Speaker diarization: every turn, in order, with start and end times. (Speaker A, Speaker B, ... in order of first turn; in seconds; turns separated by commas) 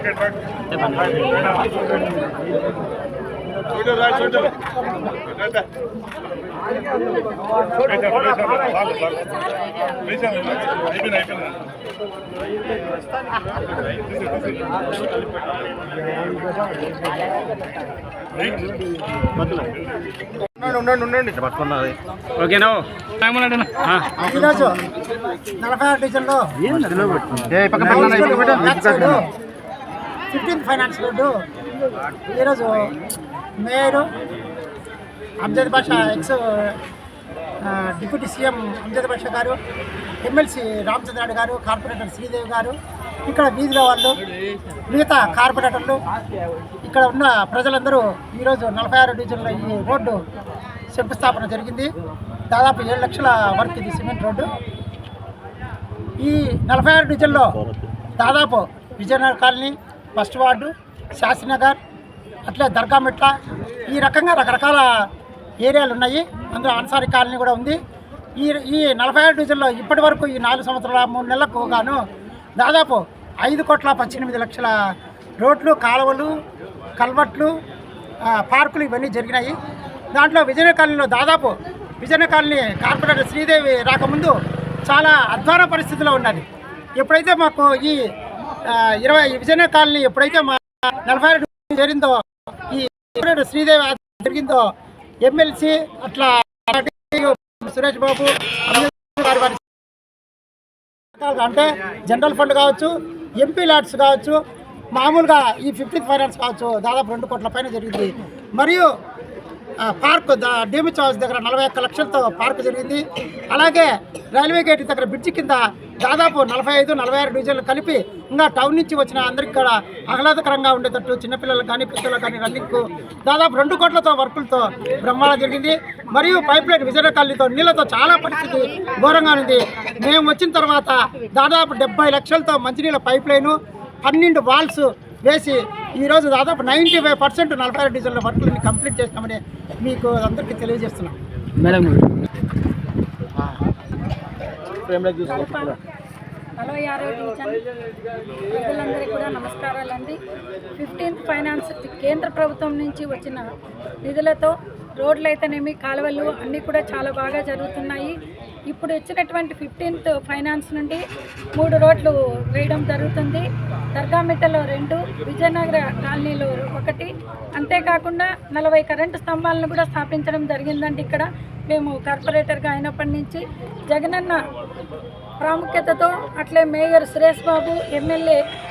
Speaker A: 0.7-1.7, Speaker A: 7.9-8.3, Speaker B: 8.6-11.3, Speaker A: 19.4-19.7, Speaker A: 20.6-24.2, Speaker C: 24.1-24.8, Speaker C: 25.6-26.7, Speaker A: 26.7-29.0, Speaker C: 27.7-29.3, Speaker C: 30.3-31.3, Speaker C: 32.1-32.9, Speaker C: 33.6-34.1, Speaker C: 35.4-36.8, Speaker C: 37.6-39.6, Speaker C: 40.2-44.2, Speaker C: 44.9-46.0, Speaker C: 46.8-50.2, Speaker C: 50.9-51.9, Speaker C: 52.5-54.5, Speaker C: 56.2-57.6, Speaker C: 58.2-61.8, Speaker C: 62.5-63.3, Speaker C: 63.9-64.9, Speaker C: 65.6-67.8, Speaker C: 68.4-72.0, Speaker C: 72.6-74.7, Speaker C: 75.4-76.3, Speaker C: 77.0-77.5, Speaker C: 78.2-79.5, Speaker C: 80.1-86.4, Speaker C: 87.0-88.0, Speaker C: 88.6-94.7, Speaker C: 95.2-99.6, Speaker C: 101.2-104.4, Speaker C: 104.9-108.9, Speaker C: 109.8-141.2, Speaker A: 141.6-142.1, Speaker A: 144.8-145.3, Speaker B: 145.2-145.8, Speaker B: 146.6-147.6, Speaker B: 148.5-150.2, Speaker B: 150.8-153.5, Speaker B: 154.1-158.2, Speaker B: 158.7-161.0, Speaker B: 161.6-174.4, Speaker B: 175.4-178.4